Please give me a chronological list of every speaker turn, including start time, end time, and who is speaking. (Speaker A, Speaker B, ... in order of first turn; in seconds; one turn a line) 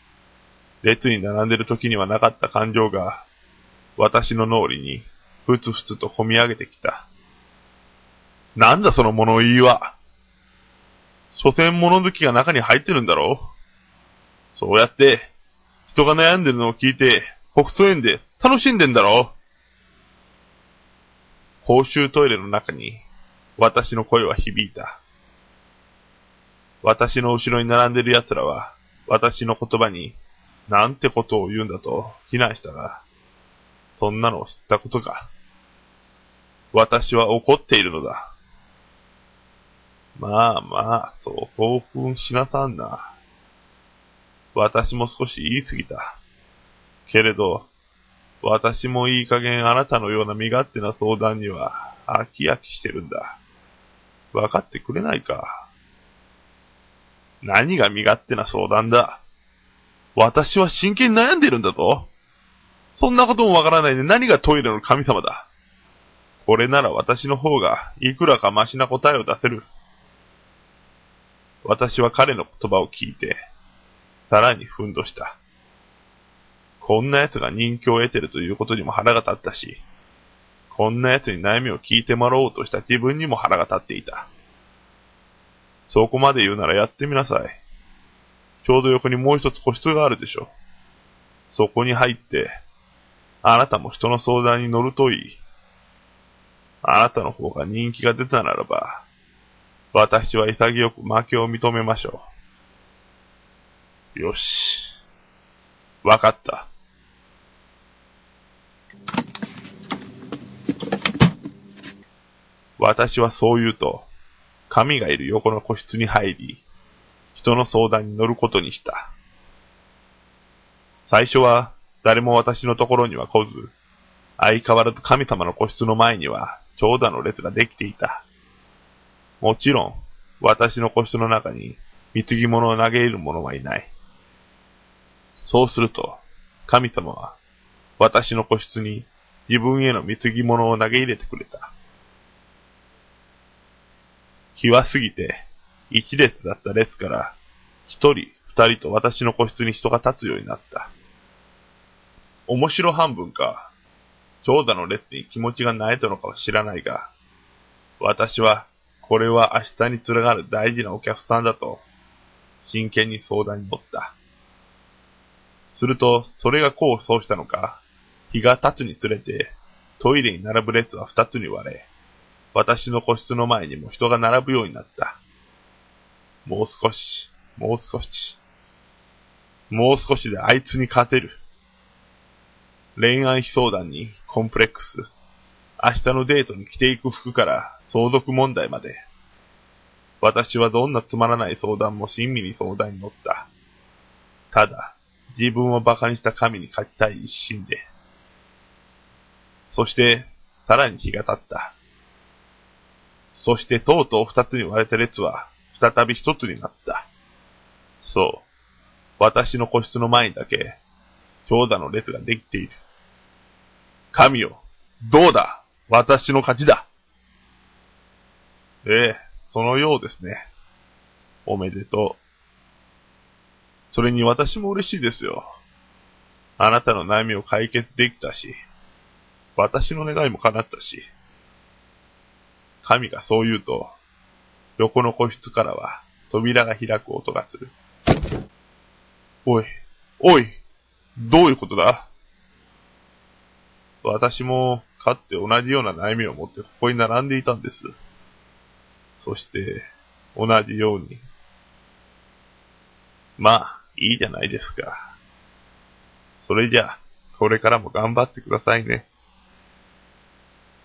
Speaker A: 0.8-3.2
Speaker A: 4.0-7.1
Speaker A: 8.6-9.9
Speaker A: 11.4-13.5
Speaker A: 14.5-15.3
Speaker A: 15.9-19.4
Speaker A: 21.6-23.0
Speaker A: 23.6-25.0
Speaker A: 26.8-30.2
Speaker A: 30.7-33.0
Speaker A: 34.0-35.3
Speaker A: 36.7-38.3
Speaker A: 40.2-43.1
Speaker A: 44.5-46.2
Speaker A: 47.1-47.7
Speaker A: 48.4-53.4
Speaker A: 54.3-55.6
Speaker A: 57.4-59.2
Speaker A: 60.2-62.1
Speaker A: 63.0-65.5
Speaker A: 66.4-69.7
Speaker A: 71.6-73.4
Speaker A: 74.3-75.4
Speaker A: 76.8-79.8
Speaker A: 80.7-84.3
Speaker A: 85.9-87.6
Speaker A: 88.6-90.5
Speaker A: 91.5-92.5
Speaker A: 93.4-95.4
Speaker A: 96.8-99.0
Speaker A: 99.9-102.3
Speaker A: 104.2-104.9
Speaker A: 106.0-106.7
Speaker A: 112.8-114.1
Speaker A: 114.7-116.6
Speaker A: 117.3-119.1
Speaker A: 121.0-123.7
Speaker A: 124.4-128.2
Speaker A: 129.4-133.9
Speaker A: 135.4-137.3
Speaker A: 138.0-141.7
Speaker A: 144.6-147.3
Speaker A: 147.9-150.9
Speaker A: 152.5-153.7
Speaker A: 154.4-157.1
Speaker A: 158.0-161.8
Speaker A: 162.6-164.1
Speaker A: 165.7-167.8
Speaker A: 168.3-171.9
Speaker A: 172.5-175.2
Speaker A: 176.4-178.4
Speaker A: 179.7-181.4
Speaker A: 183.0-185.1
Speaker A: 185.8-189.0
Speaker A: 190.2-193.5
Speaker A: 194.5-197.8
Speaker A: 199.7-201.7
Speaker A: 203.3-207.1
Speaker A: 208.0-208.4
Speaker A: 209.2-210.8
Speaker A: 211.5-212.8
Speaker A: 214.1-216.9
Speaker A: 218.8-220.5
Speaker A: 221.5-222.2
Speaker A: 223.9-225.5
Speaker A: 226.6-228.6
Speaker A: 229.6-231.1
Speaker A: 232.8-233.9
Speaker A: 234.8-237.7
Speaker A: 239.4-240.6
Speaker A: 241.2-242.1
Speaker A: 244.0-247.9
Speaker A: 249.2-251.2
Speaker A: 253.4-255.1
Speaker A: 256.4-259.1